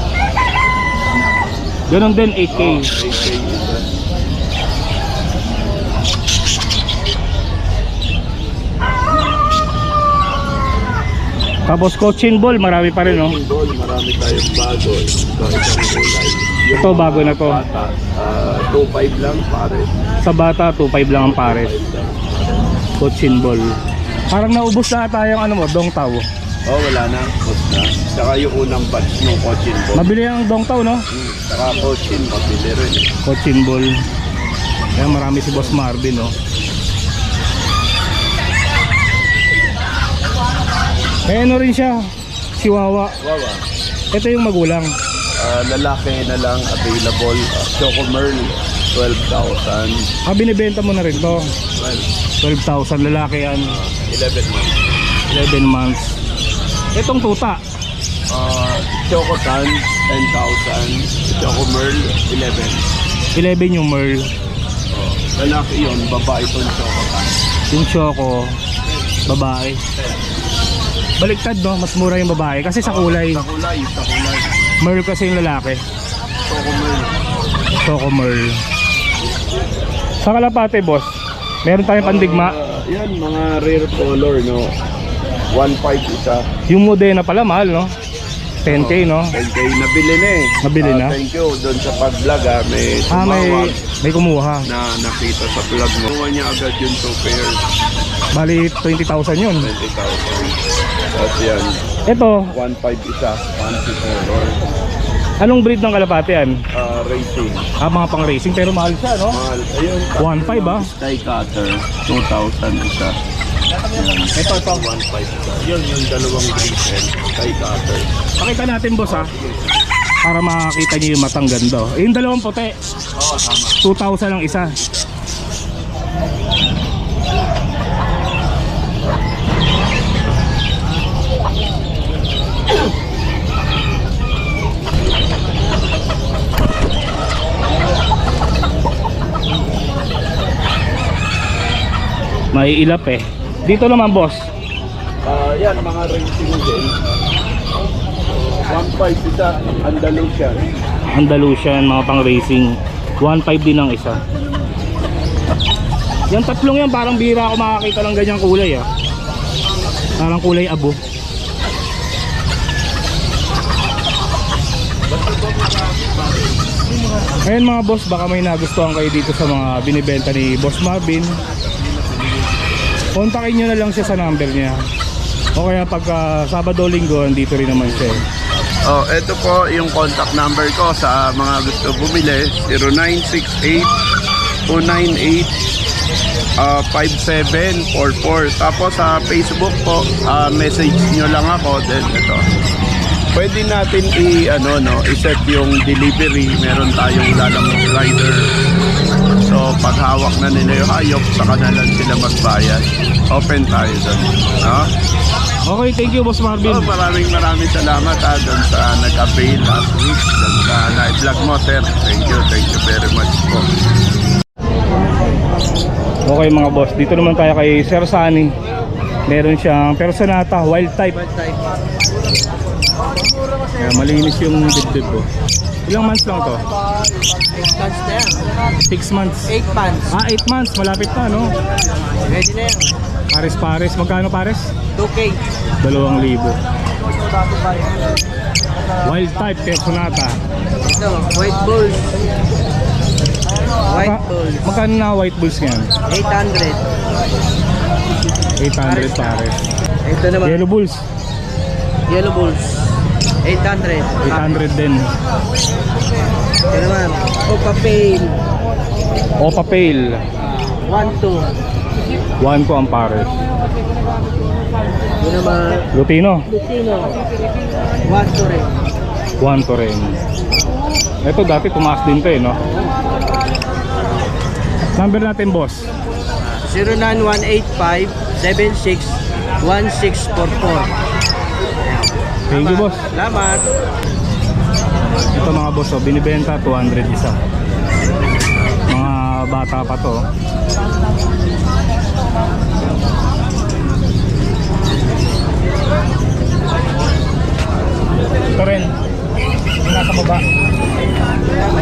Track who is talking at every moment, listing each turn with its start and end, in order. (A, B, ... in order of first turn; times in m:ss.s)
0:01.9-0:02.9 A
0:02.5-0:03.8 B
0:11.7-0:13.3 A
0:13.0-0:19.9 B
0:16.8-0:17.6 A
0:20.2-0:21.7 A
0:21.2-0:22.3 B
0:23.0-0:23.7 A
0:24.3-0:26.2 A
0:26.6-0:30.1 B
0:30.0-0:31.0 A
0:31.1-0:33.1 B
0:33.3-0:34.0 A
0:35.0-0:36.3 A
0:41.3-0:42.0 A
0:42.6-0:43.1 A
0:43.2-0:43.6 B
0:44.1-0:44.9 A
0:45.4-0:50.0 B
0:50.3-0:51.5 A
0:51.8-0:52.1 B
0:52.4-0:53.7 A
0:53.7-0:54.8 B
0:55.3-0:56.1 A
0:57.0-0:57.6 A
0:58.3-1:02.9 B
1:03.3-1:04.2 A
1:04.9-1:07.4 B
1:07.7-1:08.5 A
1:09.3-1:09.8 A
1:11.2-1:13.4 A
1:12.8-1:14.5 B
1:14.8-1:15.8 A
1:16.4-1:17.2 B
1:17.8-1:18.6 A
1:20.2-1:21.1 A
1:21.6-1:22.5 A
1:22.0-1:24.7 B
1:25.5-1:26.4 B
1:26.7-1:27.9 A
1:28.6-1:29.3 A
1:28.7-1:33.8 B
1:30.6-1:31.2 A
1:33.1-1:34.7 A
1:34.7-1:37.6 B
1:38.3-1:39.7 A
1:39.6-1:40.6 B
1:41.1-1:41.8 B
1:42.1-1:42.5 A
1:42.5-1:44.6 B
1:45.4-1:46.6 A
1:46.7-1:47.7 B
1:47.8-1:49.4 A
1:49.3-1:53.2 B
1:50.2-1:50.9 A
1:53.8-1:58.1 B
1:54.4-1:54.8 A
1:58.4-1:59.3 A
1:59.0-1:59.8 B
2:00.2-2:02.7 A
2:03.2-2:03.8 B
2:03.8-2:04.7 A
2:22.5-2:24.4 A
2:25.2-2:26.9 B
2:28.3-2:30.6 B
2:31.2-2:34.2 A
2:36.3-2:38.9 A
2:40.2-2:41.0 A
2:45.1-2:46.8 B
2:47.4-2:51.3 A
2:51.6-2:52.6 B
2:53.2-2:54.8 A
2:55.6-2:58.2 A
2:57.8-2:58.2 B
2:58.8-3:03.9 B
3:04.7-3:05.5 B
3:06.6-3:12.4 B
3:13.3-3:18.5 B
3:19.4-3:24.9 B
3:25.7-3:26.9 A
3:26.6-3:33.7 B
3:36.3-3:38.5 A
3:39.3-3:41.3 A
3:43.8-3:45.3 A
3:45.9-3:46.6 A
3:47.7-3:48.0 C
3:48.9-3:49.5 A
3:49.6-3:49.9 C
3:50.1-3:51.5 A
3:53.3-3:54.7 A
3:55.8-3:56.6 A
3:59.0-4:00.4 A
4:01.0-4:01.7 C
4:03.9-4:05.9 A
4:06.1-4:06.6 C
4:08.6-4:09.6 A
4:10.4-4:11.0 A
4:12.2-4:12.5 C
4:13.5-4:14.1 C
4:14.2-4:15.0 A
4:16.7-4:18.2 C
4:19.4-4:20.2 A
4:20.9-4:21.3 C
4:22.4-4:23.3 A
4:25.2-4:25.6 C
4:25.9-4:26.5 A
4:26.5-4:26.8 C
4:28.1-4:28.6 C
4:29.4-4:30.2 A
4:31.2-4:32.6 A
4:35.0-4:35.9 A
4:36.8-4:39.0 C
4:39.6-4:40.8 C
4:42.5-4:43.0 A
4:42.7-4:43.4 C
4:45.3-4:47.4 A
4:48.9-4:50.2 A
4:58.6-4:58.9 A
4:59.8-5:00.4 A